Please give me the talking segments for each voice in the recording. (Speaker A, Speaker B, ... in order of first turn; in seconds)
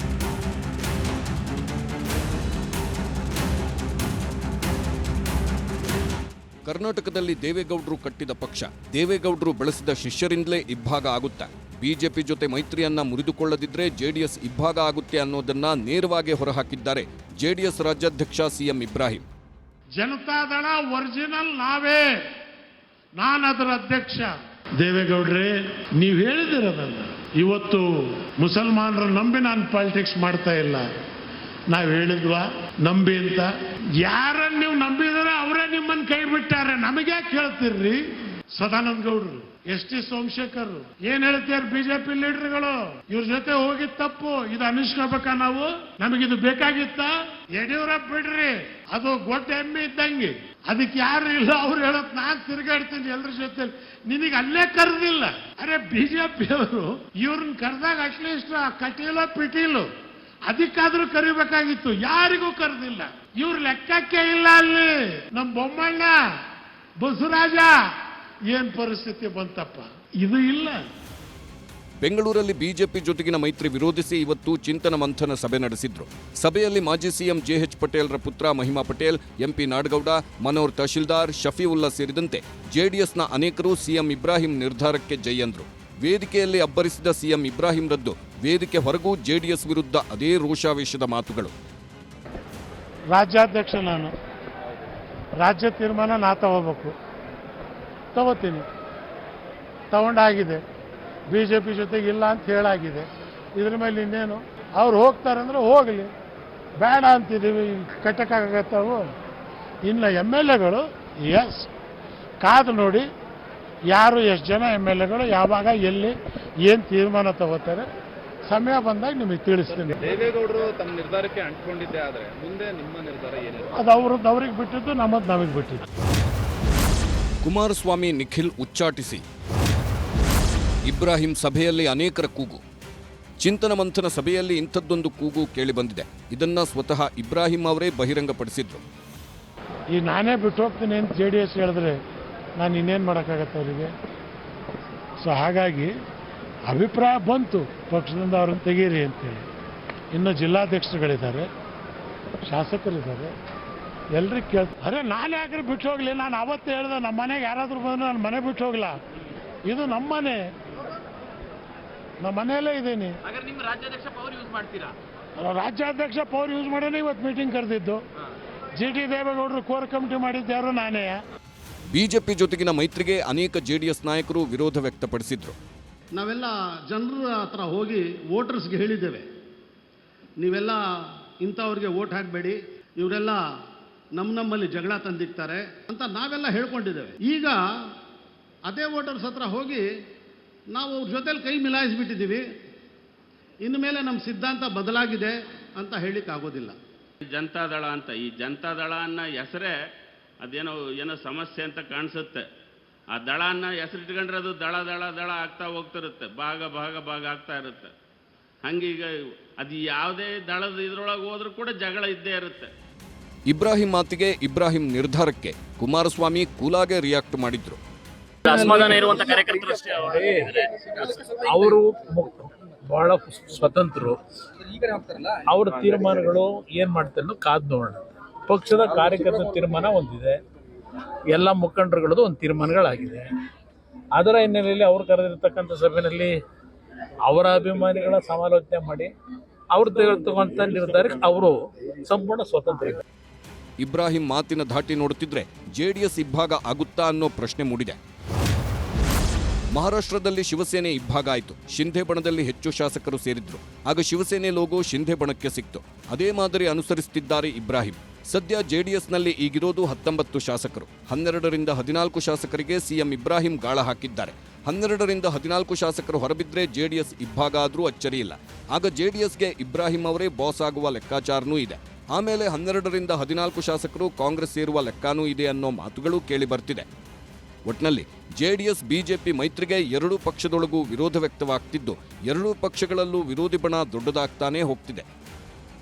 Speaker A: 6.7-19.2, 72.0-91.5, 127.4-129.2, 130.9-132.6, 133.4-138.8, 171.9-175.6, 213.5-217.8, 243.8-248.0, 249.7-276.9, 277.6-285.1
Speaker B: 20.0-22.0, 23.2-30.9, 31.7-33.5, 34.0-38.0, 38.5-59.9, 60.5-66.2, 67.0-67.7, 68.5-70.9, 93.1-94.1, 95.4-96.9, 98.1-98.7, 99.9-100.6, 101.3-106.1, 106.8-109.1, 109.8-111.7, 112.4-113.0, 113.9-117.9, 118.5-120.2, 123.8-125.8, 139.9-142.0, 142.6-143.9, 145.2-145.9, 146.7-149.4, 150.1-151.5, 152.5-153.3, 154.2-158.9, 159.7-160.4, 162.2-163.2, 165.4-168.0, 168.8-171.2
Speaker C: 120.1-123.7, 163.3-164.9
Speaker D: 176.2-179.2, 180.4-180.8, 181.4-183.4, 184.2-187.6, 188.7-189.8, 190.7-192.5, 193.6-196.8
Speaker E: 197.3-199.7, 200.4-202.4, 203.1-207.9, 208.6-212.7
Speaker F: 218.4-221.2
Speaker G: 218.5-219.3, 220.0-224.2, 224.9-230.4, 231.3-233.3, 234.1-236.4, 237.2-239.1, 239.7-243.0